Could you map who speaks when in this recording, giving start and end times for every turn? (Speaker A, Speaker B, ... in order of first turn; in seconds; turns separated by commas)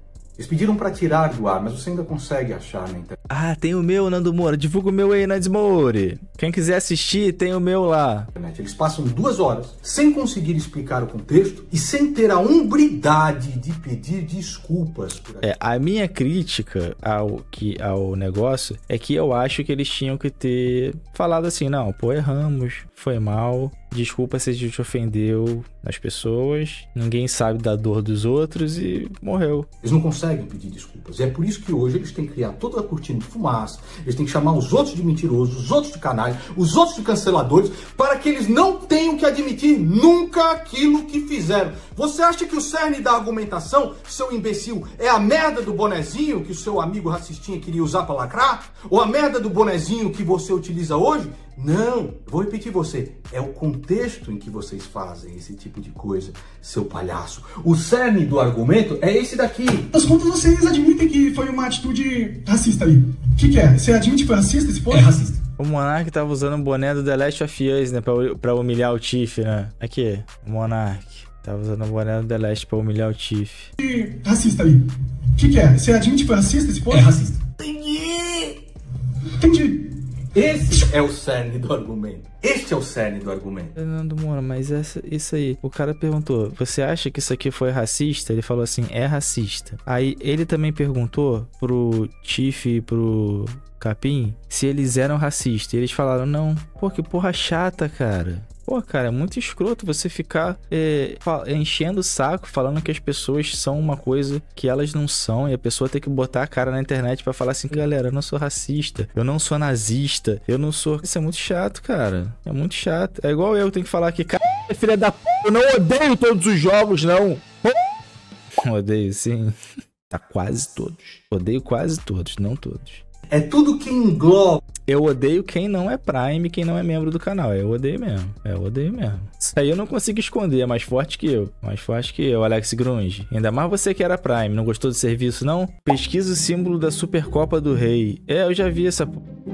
Speaker A: 0.4-3.1, Speaker B: 3.3-8.3, Speaker A: 8.3-15.5, Speaker B: 15.4-29.7, Speaker A: 29.8-59.9, Speaker C: 59.9-65.4, Speaker B: 65.6-73.7, Speaker C: 73.8-74.8, Speaker C: 75.4-77.4, Speaker A: 76.9-78.5, Speaker C: 79.4-79.9, Speaker A: 80.3-83.7, Speaker B: 83.8-117.8, Speaker B: 118.6-119.5, Speaker B: 120.1-123.0, Speaker A: 123.3-124.6, Speaker B: 124.8-139.2